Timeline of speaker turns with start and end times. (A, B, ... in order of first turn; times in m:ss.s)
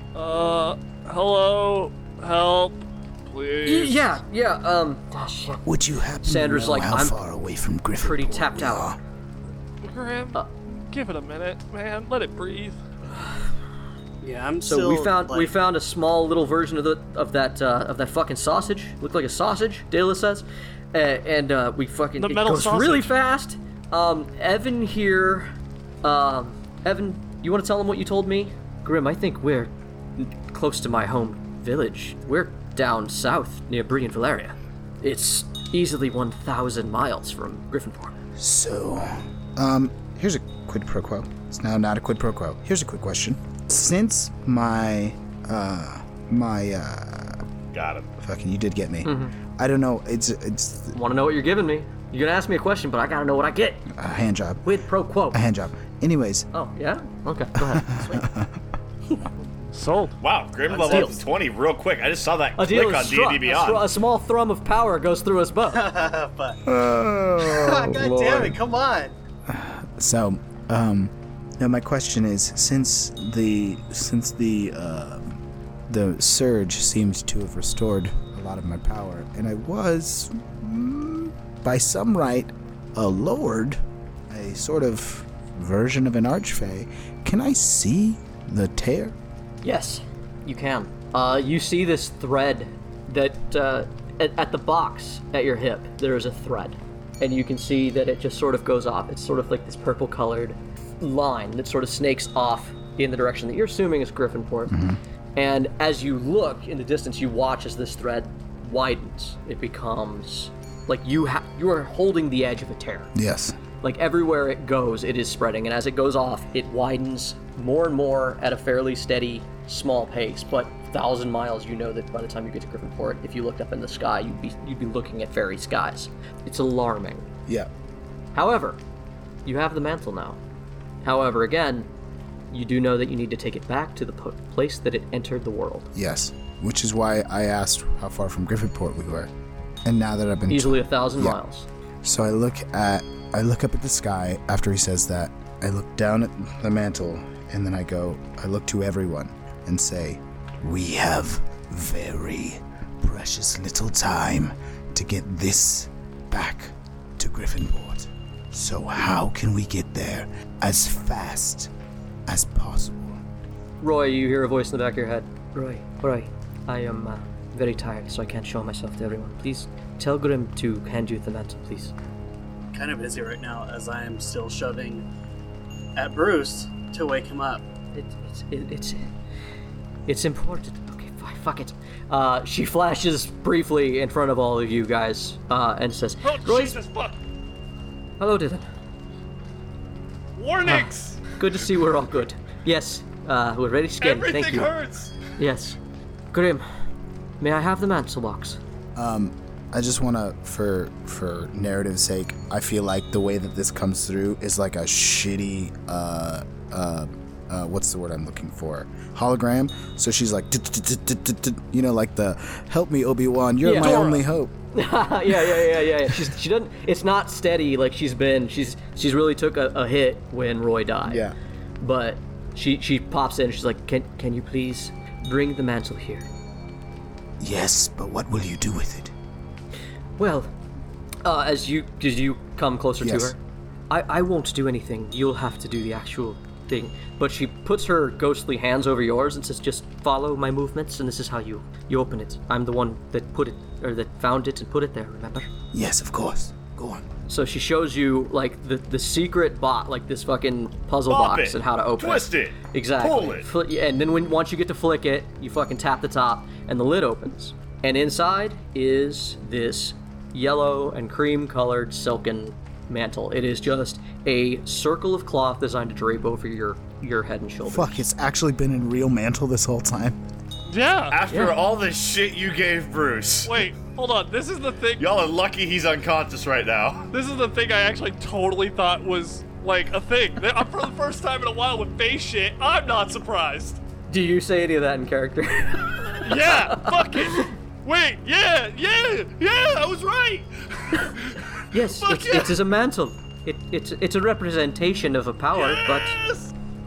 0:00.1-0:04.1 A
0:03.6-0:05.6 B
0:05.6-0:09.0 C
0:06.2-0:07.2 B
0:08.0-0:08.9 B
0:09.8-0:12.8 A
0:14.2-0:15.5 D
0:14.6-0:25.5 B
0:22.2-0:23.1 A
0:26.0-0:38.2 B
0:38.4-0:47.4 C
0:47.7-0:48.1 E
0:48.2-0:51.0 C
0:49.0-0:49.4 B
0:51.0-0:53.9 B
0:53.9-0:54.6 C
0:54.6-0:55.4 B
0:55.3-0:56.5 C
0:56.5-0:58.2 B
0:57.6-0:58.6 C
0:59.7-1:00.2 A
1:00.2-1:03.9 E
1:00.7-1:01.2 D
1:00.9-1:01.2 B
1:02.6-1:05.8 B
1:05.7-1:06.7 D
1:06.7-1:08.6 C
1:07.4-1:09.1 D
1:09.5-1:29.1 C
1:29.6-1:44.8 B
1:44.7-1:45.0 C
1:45.4-1:53.1 B
1:53.1-1:53.6 C
1:53.8-2:07.3 B
2:08.3-2:08.8 B
2:09.4-2:10.4 B
2:11.0-2:11.9 B
2:12.5-2:15.9 B
2:15.9-2:19.3 C
2:19.8-2:21.4 C
2:20.5-2:21.7 B
2:22.0-2:41.7 C
2:42.3-2:43.2 C
2:43.8-2:51.9 B
2:52.7-2:55.0 D
2:56.0-2:57.6 D
2:57.9-2:59.1 B
3:00.1-3:06.8 B
3:06.2-3:07.2 A
3:08.2-3:08.6 B
3:10.4-3:11.3 A
3:10.6-3:14.7 B
3:14.0-3:15.2 A
3:15.4-3:15.8 B
3:16.3-3:16.6 B
3:17.4-3:18.6 B
3:19.0-3:34.5 C
3:33.6-3:34.0 B
3:33.8-3:34.2 A
3:34.7-3:41.2 B
3:35.4-3:36.3 C
3:41.0-3:41.4 C
3:41.8-3:46.3 B
3:47.4-3:49.1 C
3:50.2-3:50.5 B
3:51.2-3:53.4 B
3:53.0-3:53.4 C
3:53.9-4:05.5 B
4:05.7-4:07.1 C
4:07.3-4:28.0 B
4:11.1-4:13.5 E
4:27.6-4:30.2 C
4:30.7-4:31.2 A
4:31.1-4:33.6 E
4:33.4-4:35.0 A
4:35.0-4:37.1 E
4:37.1-4:43.8 A
4:44.1-4:47.5 B
4:46.2-4:52.6 A
4:51.7-4:56.2 B
4:55.6-4:56.5 A